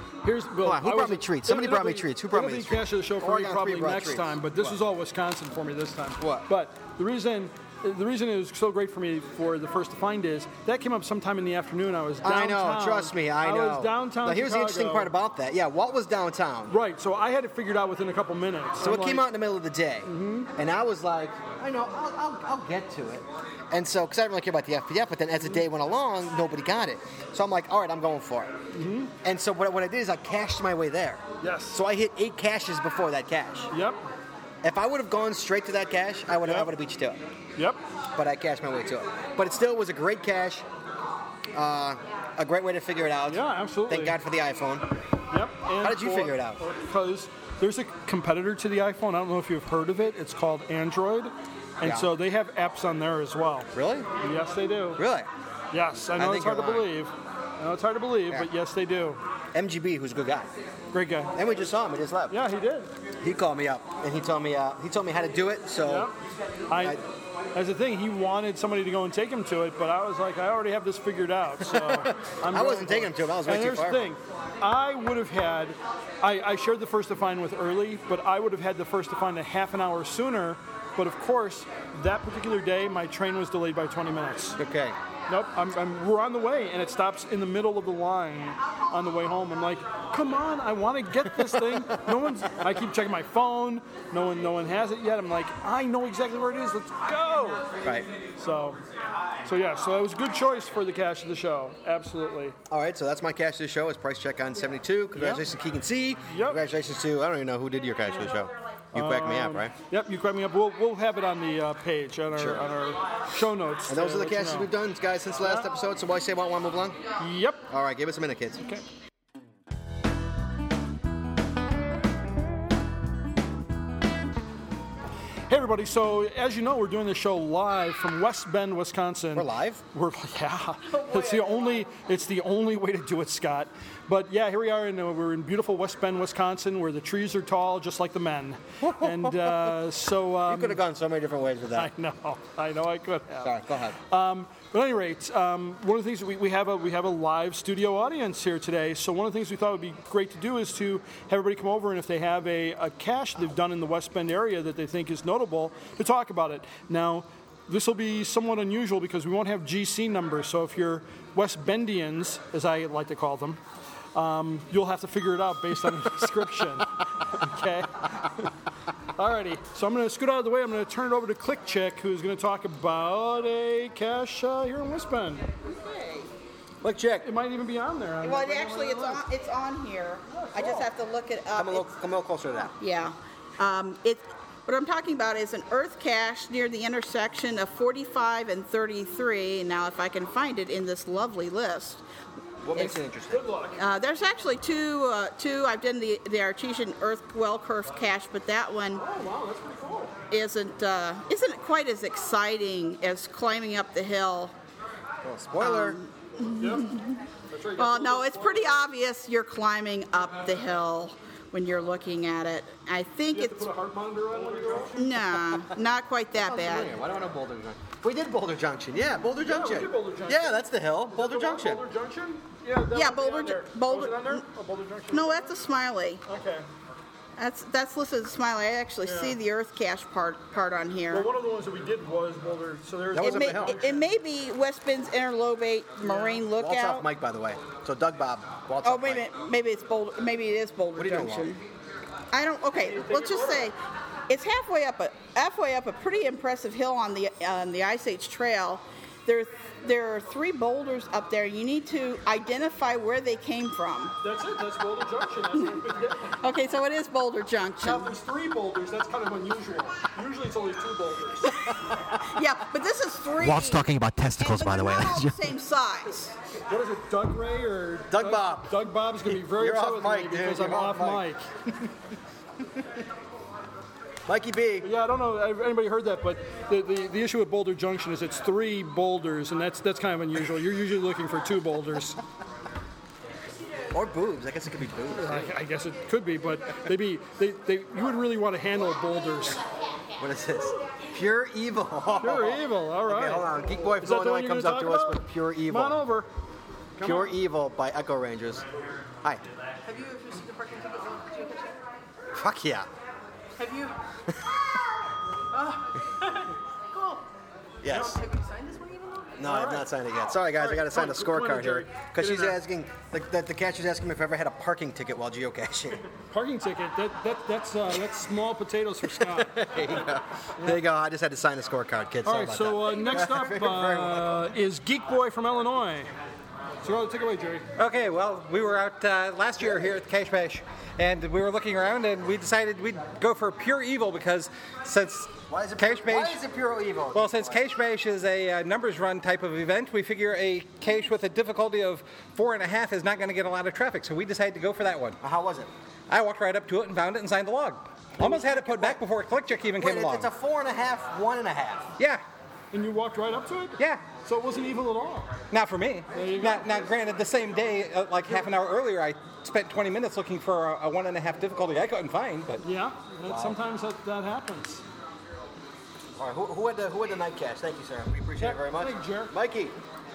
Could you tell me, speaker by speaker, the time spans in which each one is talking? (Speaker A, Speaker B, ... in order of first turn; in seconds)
Speaker A: 0.2-15.1, 16.7-19.3, 20.1-20.5, 28.7-29.1, 31.4-31.8, 33.7-34.0, 36.4-36.7, 43.3-44.2, 45.3-55.0, 55.7-59.2, 60.9-61.3, 62.3-62.9, 65.8-66.1, 66.7-67.0, 67.5-84.6, 85.3-97.7, 98.4-98.8, 99.4-102.5, 105.2-105.5, 106.3-106.6, 108.9-114.7, 115.4-115.7, 117.2-117.6, 125.5-140.8, 141.7-163.6, 164.1-168.5, 169.2-175.5, 177.2-179.2, 180.3-180.9, 193.3-193.8, 199.0-200.1, 206.6-206.9, 207.5-208.8, 213.3-215.2, 219.4-225.6, 226.2-226.7, 229.0-229.4, 231.1-234.0, 236.0-236.4, 242.7-243.7, 254.2-256.4, 257.8-261.5, 266.7-271.4, 274.8-282.2, 285.1-289.6, 292.2-293.5, 294.0-296.3, 297.0-297.4, 309.4-309.9, 310.5-312.6, 316.3-319.6, 322.2-326.1, 326.8-327.6, 352.7-355.3, 356.1-356.8, 362.6-364.8, 368.4-369.3
Speaker B: 0.6-4.8, 6.2-6.5, 12.2-16.8, 18.8-28.6, 29.2-33.7, 34.6-37.2, 38.1-40.6, 41.5-44.9, 45.8-46.6, 51.8-52.1, 53.7-54.1, 55.0-55.3, 56.1-56.9, 59.5-60.5, 61.3-62.4, 63.2-66.1, 66.7-67.0, 71.6-74.2, 84.6-85.0, 91.3-92.1, 97.8-98.1, 102.7-109.7, 112.3-112.7, 113.9-117.0, 117.7-118.6, 129.3-129.8, 138.8-139.8, 140.5-141.9, 143.4-144.0, 176.8-177.3, 181.5-182.7, 192.6-193.4, 205.2-206.0, 216.4-221.8, 233.1-233.8, 236.5-239.2, 240.9-241.5, 263.4-265.3, 268.1-271.9, 274.2-274.9, 283.9-285.5, 290.2-296.0, 297.0-298.6, 302.3-302.9, 304.3-304.6, 307.8-308.2, 309.4-316.0, 319.2-324.5, 335.5-337.6, 345.2-345.7, 348.2-349.0, 349.8-351.9, 363.2-363.6, 366.2-369.8
Speaker C: 130.9-131.8, 175.6-176.3, 178.2-181.9, 182.8-192.0, 193.8-199.0, 200.3-204.5, 205.6-207.2, 207.8-213.7, 214.9-216.9, 222.9-224.4, 225.1-226.2, 227.4-231.3, 233.2-237.1, 238.8-241.6, 242.3-243.7, 244.3-254.1, 256.4-258.1, 262.2-266.3
Speaker D: 327.8-336.4, 337.1-345.2, 346.1-350.3, 353.8-354.0, 355.5-362.6